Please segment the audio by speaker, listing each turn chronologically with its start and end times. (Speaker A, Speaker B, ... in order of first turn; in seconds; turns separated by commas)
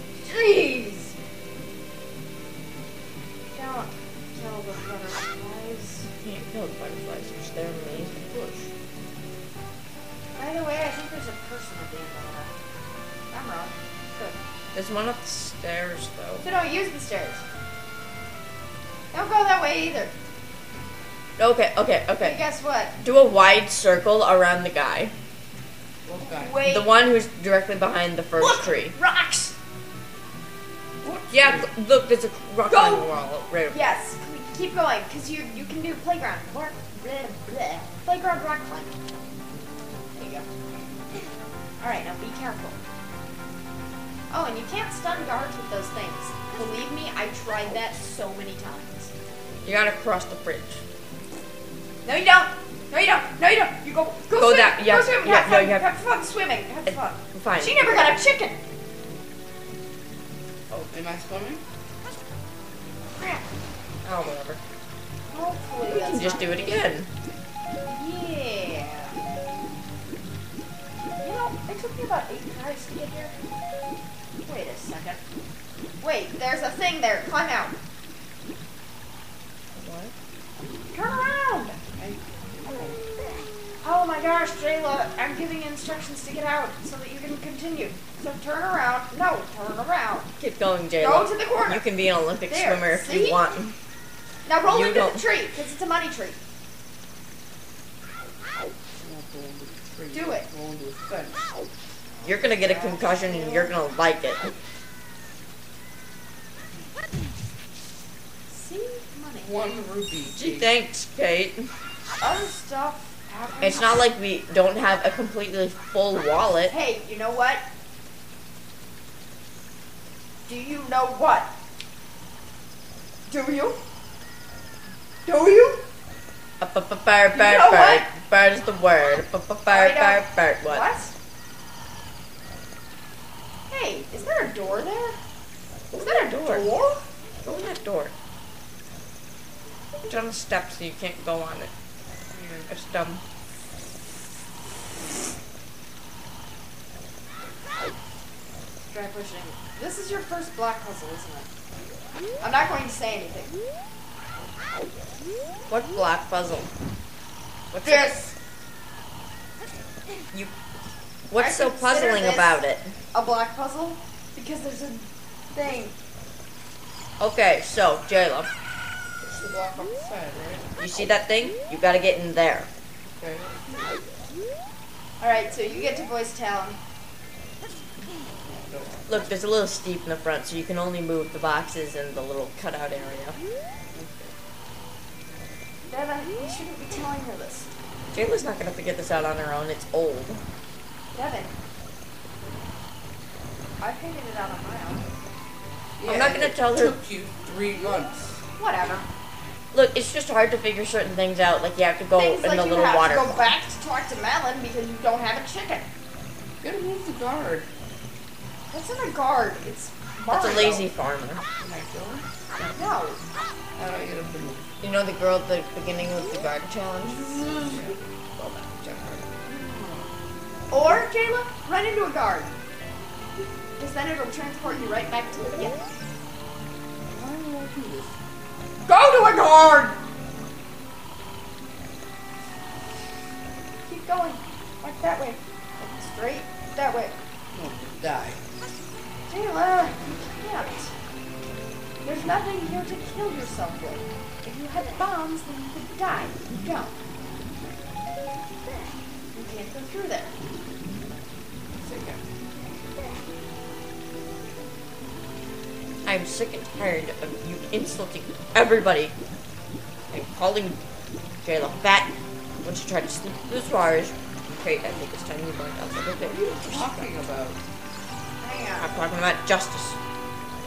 Speaker A: 0.2-1.1, Speaker A: 3.5-6.1, Speaker B: 6.2-8.2, Speaker C: 8.3-8.7, Speaker A: 10.3-12.5, Speaker A: 13.3-14.4, Speaker B: 14.7-16.4, Speaker A: 16.4-17.4, Speaker A: 19.1-20.1, Speaker B: 21.4-22.4, Speaker A: 22.2-22.9, Speaker B: 23.0-25.1, Speaker C: 26.0-26.6, Speaker A: 26.2-26.9, Speaker B: 26.6-28.9, Speaker A: 28.4-29.5, Speaker C: 31.0-31.7, Speaker B: 31.3-33.9, Speaker A: 32.6-33.1, Speaker A: 33.7-39.0, Speaker A: 40.1-40.5, Speaker A: 41.8-42.8, Speaker A: 44.3-49.1, Speaker B: 49.6-50.8, Speaker A: 52.0-58.6, Speaker B: 54.4-55.8, Speaker B: 56.9-57.9, Speaker C: 60.7-61.6, Speaker A: 63.2-63.5, Speaker B: 64.0-64.6, Speaker A: 65.3-66.8, Speaker B: 65.9-67.1, Speaker A: 67.8-69.2, Speaker A: 71.2-73.3, Speaker A: 74.4-75.2, Speaker A: 76.0-77.7, Speaker B: 79.7-80.1, Speaker A: 80.9-81.8, Speaker C: 82.0-83.0, Speaker A: 83.8-90.3, Speaker B: 90.4-93.8, Speaker A: 91.0-91.9, Speaker A: 92.4-93.5, Speaker A: 94.4-96.4, Speaker B: 94.7-95.2, Speaker C: 99.0-101.5, Speaker A: 100.1-100.5, Speaker A: 102.1-103.8, Speaker B: 102.2-104.5, Speaker A: 108.5-109.5, Speaker C: 109.4-110.7, Speaker B: 110.3-111.7, Speaker A: 112.2-114.0, Speaker B: 113.6-116.7, Speaker A: 116.7-117.7, Speaker A: 120.5-121.5, Speaker A: 123.3-123.8, Speaker A: 125.2-125.8, Speaker B: 126.6-130.9, Speaker A: 127.3-128.1, Speaker A: 129.7-131.1, Speaker A: 133.7-135.2, Speaker B: 135.9-136.7, Speaker A: 135.9-137.0, Speaker B: 137.4-138.1, Speaker B: 140.1-141.7, Speaker C: 142.3-142.7, Speaker B: 142.7-143.2, Speaker A: 148.8-151.5, Speaker A: 152.4-153.6, Speaker B: 155.7-156.7, Speaker B: 157.7-158.1, Speaker A: 157.8-158.3, Speaker B: 161.3-162.9, Speaker A: 161.4-162.6, Speaker A: 163.1-165.9, Speaker B: 167.2-168.5, Speaker C: 169.2-170.9, Speaker B: 170.8-172.7, Speaker C: 173.2-174.0, Speaker A: 175.2-176.8, Speaker C: 178.4-179.0, Speaker B: 179.1-183.4, Speaker C: 183.9-184.3, Speaker A: 185.9-187.7, Speaker B: 188.1-190.4, Speaker A: 191.1-191.5, Speaker A: 193.8-195.1, Speaker C: 196.0-198.4, Speaker B: 196.0-196.9, Speaker A: 198.6-199.1, Speaker B: 199.7-203.5, Speaker A: 202.1-205.8, Speaker C: 206.6-207.7, Speaker A: 208.7-210.9, Speaker B: 210.3-211.4, Speaker C: 211.6-212.2, Speaker A: 212.7-213.2, Speaker C: 213.8-214.6, Speaker B: 214.8-219.2, Speaker C: 217.7-218.0, Speaker C: 219.4-220.1, Speaker A: 220.7-222.5, Speaker A: 223.8-225.8, Speaker C: 227.1-228.1, Speaker A: 228.8-230.0, Speaker A: 233.8-237.1, Speaker C: 237.5-238.4, Speaker A: 239.3-240.9, Speaker A: 242.0-246.9, Speaker A: 249.3-250.3, Speaker C: 251.8-252.2, Speaker B: 256.0-259.1, Speaker B: 260.1-260.8, Speaker B: 261.4-262.1, Speaker B: 262.6-267.1, Speaker C: 266.2-267.6, Speaker A: 268.4-269.0, Speaker B: 268.8-270.0